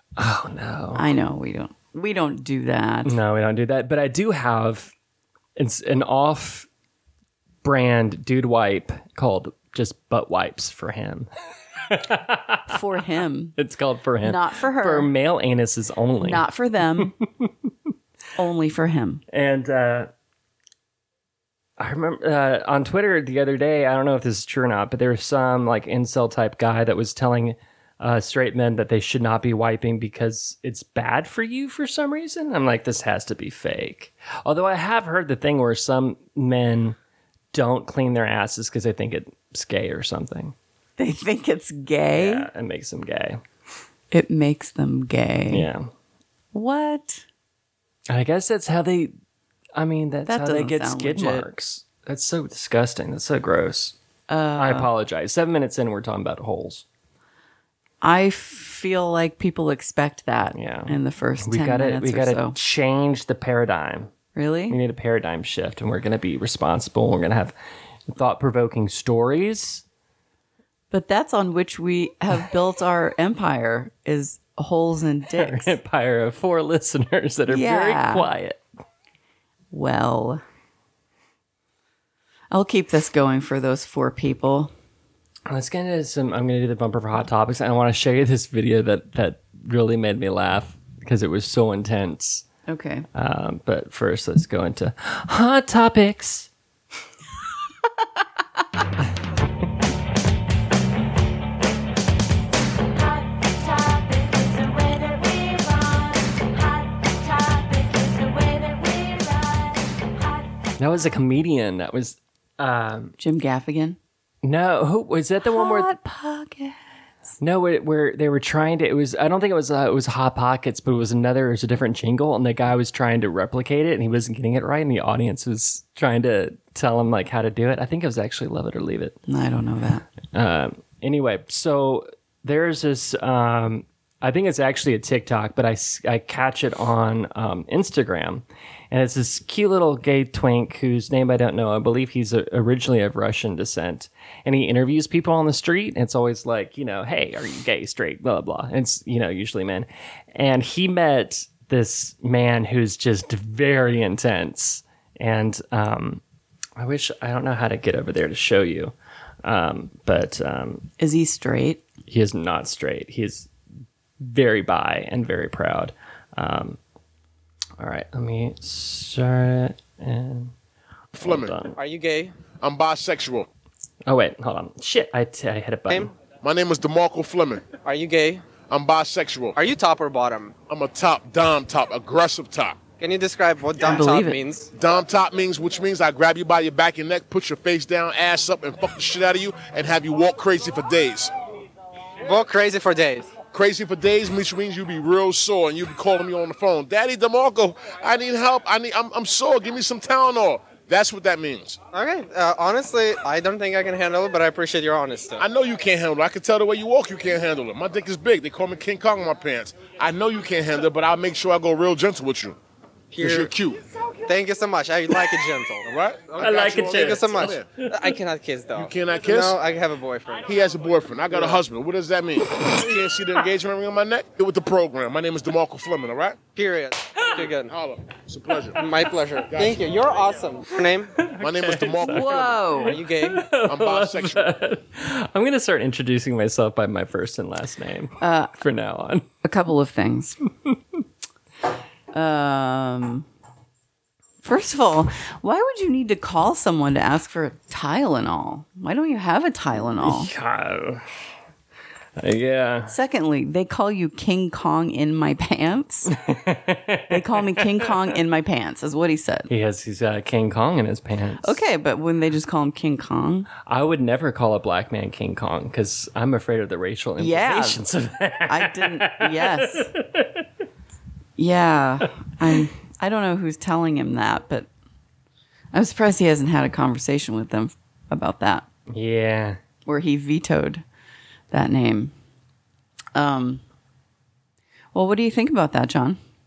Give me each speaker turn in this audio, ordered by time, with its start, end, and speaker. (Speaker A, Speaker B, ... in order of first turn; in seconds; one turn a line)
Speaker A: 0.2-1.1
Speaker B: 0.9-3.2
Speaker A: 3.0-4.9
Speaker A: 5.6-6.7
Speaker A: 7.6-11.3
Speaker A: 11.8-12.7
Speaker B: 12.7-13.6
Speaker A: 13.6-16.4
Speaker B: 14.2-15.1
Speaker B: 16.2-17.1
Speaker A: 17.0-17.5
Speaker B: 18.4-19.2
Speaker A: 19.3-20.1
Speaker A: 21.8-37.0
Speaker A: 37.5-40.5
Speaker B: 41.0-42.5
Speaker A: 42.1-43.4
Speaker B: 44.1-45.7
Speaker A: 45.5-45.9
Speaker B: 46.5-47.3
Speaker A: 48.1-49.1
Speaker A: 49.8-54.0
Speaker B: 50.3-51.5
Speaker B: 54.3-54.9
Speaker A: 54.6-56.9
Speaker B: 58.0-62.6
Speaker A: 60.5-64.1
Speaker B: 64.3-64.8
Speaker A: 64.7-67.5
Speaker A: 68.1-69.8
Speaker B: 70.9-75.8
Speaker A: 75.3-78.6
Speaker B: 77.5-78.3
Speaker B: 79.7-80.4
Speaker B: 82.5-84.7
Speaker A: 85.5-92.5
Speaker B: 92.7-93.1
Speaker A: 93.1-96.5
Speaker B: 97.8-98.6
Speaker B: 103.2-110.1
Speaker A: 110.8-113.2
Speaker B: 113.2-114.0
Speaker A: 114.4-115.9
Speaker B: 115.4-117.3
Speaker A: 117.4-129.2
Speaker B: 129.3-130.1
Speaker A: 130.3-156.2
Speaker A: 156.8-160.9
Speaker B: 161.0-161.8
Speaker A: 162.1-163.5
Speaker A: 164.2-166.8
Speaker A: 167.8-170.5
Speaker A: 171.1-171.8
Speaker C: 171.2-171.6
Speaker D: 171.8-172.3
Speaker C: 172.6-173.5
Speaker A: 174.1-176.1
Speaker C: 176.4-177.7
Speaker D: 177.8-178.4
Speaker C: 178.7-179.6
Speaker D: 179.6-180.5
Speaker C: 180.7-182.8
Speaker D: 183.0-184.7
Speaker B: 183.8-184.4
Speaker C: 184.7-191.3
Speaker D: 192.2-193.3
Speaker C: 193.5-201.8
Speaker D: 201.9-205.4
Speaker C: 205.4-212.6
Speaker D: 213.1-213.5
Speaker C: 213.2-213.8
Speaker D: 214.2-220.5
Speaker C: 215.8-217.7
Speaker A: 216.4-218.1
Speaker C: 218.8-219.6
Speaker C: 220.5-226.4
Speaker D: 221.3-221.6
Speaker D: 226.6-227.7
Speaker C: 227.6-228.8
Speaker D: 228.8-231.2
Speaker C: 229.5-230.1
Speaker A: 231.2-239.3
Speaker C: 231.3-232.6
Speaker B: 232.0-233.0
Speaker D: 232.8-233.4
Speaker C: 233.6-234.5
Speaker B: 238.2-238.5
Speaker B: 239.4-240.4
Speaker B: 242.1-243.3
Speaker B: 244.4-250.3
Speaker A: 250.0-251.1
Speaker A: 252.2-252.9
Speaker B: 252.9-256.1
Speaker A: 256.1-257.9
Speaker B: 257.1-259.5
Speaker A: 259.5-261.6
Speaker B: 261.4-263.5
Speaker A: 263.6-270.5
Speaker B: 267.2-267.9
Speaker B: 268.5-269.9
Speaker B: 271.4-274.7
Speaker B: 275.7-278.7
Speaker A: 278.9-279.6
Speaker B: 279.9-280.8
Speaker B: 281.5-282.1
Speaker B: 283.1-283.6
Speaker B: 284.9-286.2